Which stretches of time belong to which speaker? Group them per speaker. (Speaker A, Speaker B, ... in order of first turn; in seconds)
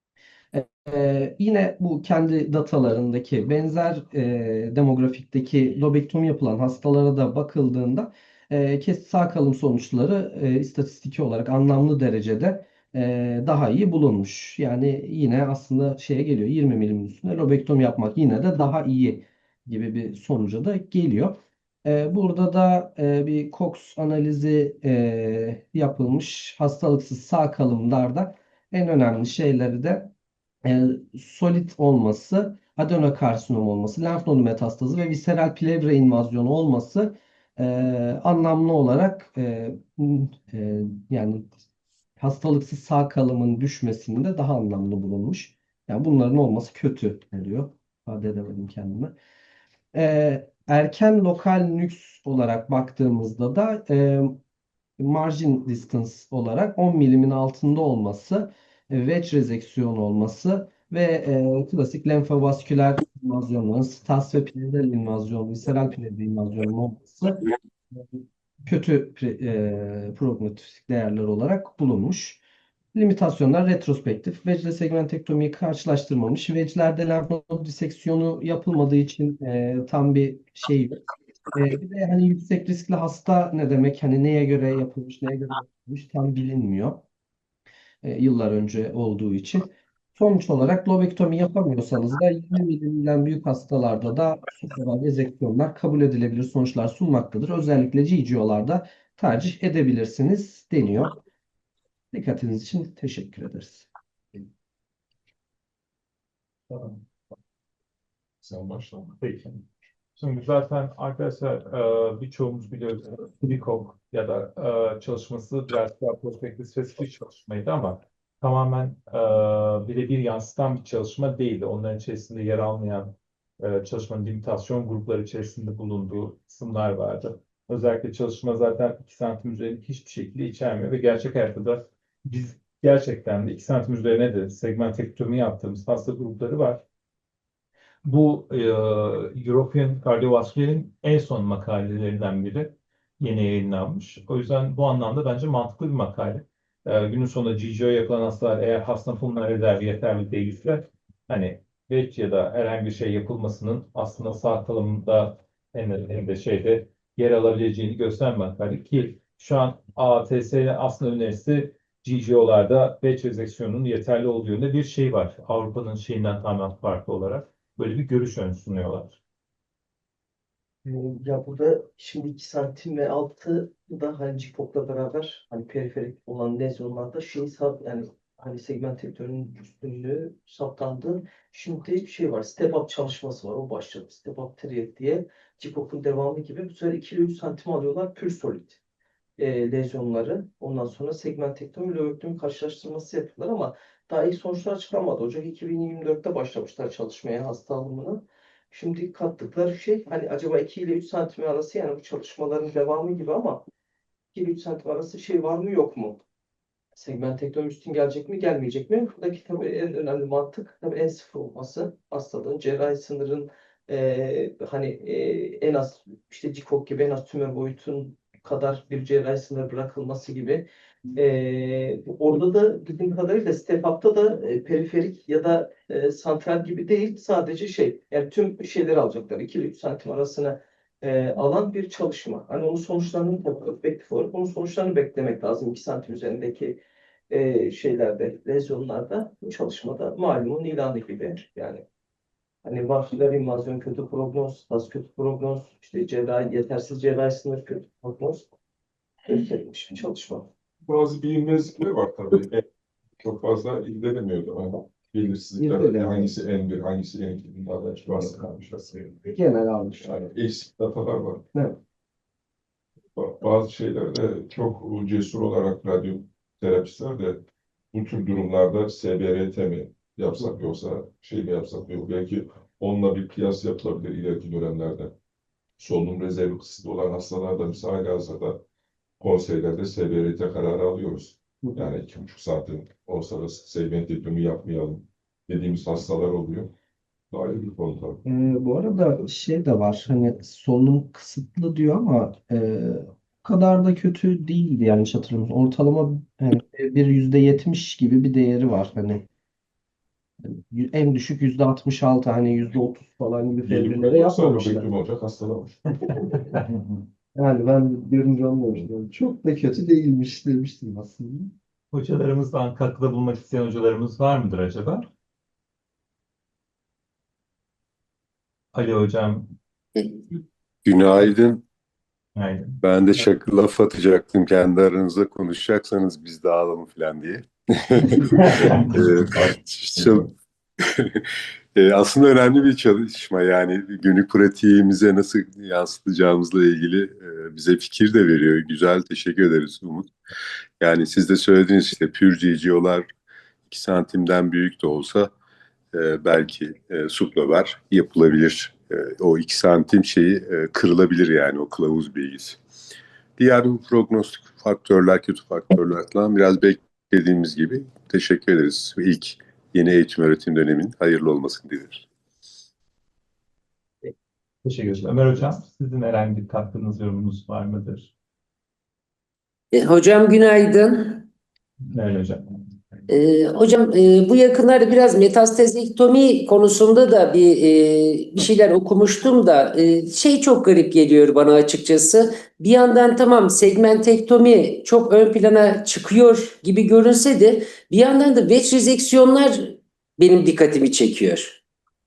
Speaker A: 0.5-30.1, 30.6-41.5, 42.2-49.1, 49.9-54.4, 55.0-67.4, 68.7-72.4, 72.9-81.0, 81.5-87.0, 88.0-101.2, 102.1-103.9, 255.6-256.3, 259.3-260.1, 281.6-281.9, 288.2-299.2, 300.6-304.9, 307.4-311.5
Speaker B: 106.7-107.0, 109.2-109.6, 110.2-136.8, 138.0-169.2, 311.9-315.1, 318.7-319.5, 322.4-322.8, 328.3-329.0, 364.6-368.1, 371.9-372.4
Speaker C: 108.4-109.2, 250.8-252.6, 253.2-259.3, 260.0-261.4, 263.1-275.1, 275.8-278.6, 279.2-286.7, 287.3-288.2, 303.7-305.8
Speaker D: 170.8-188.8, 189.4-203.6, 204.3-206.2, 206.9-241.8, 242.6-248.4, 249.2-250.5
Speaker E: 320.9-321.6, 322.8-330.3, 330.9-340.1, 340.8-343.1, 343.7-345.3, 345.9-352.6, 353.4-362.1
Speaker F: 369.7-371.2, 373.1-391.6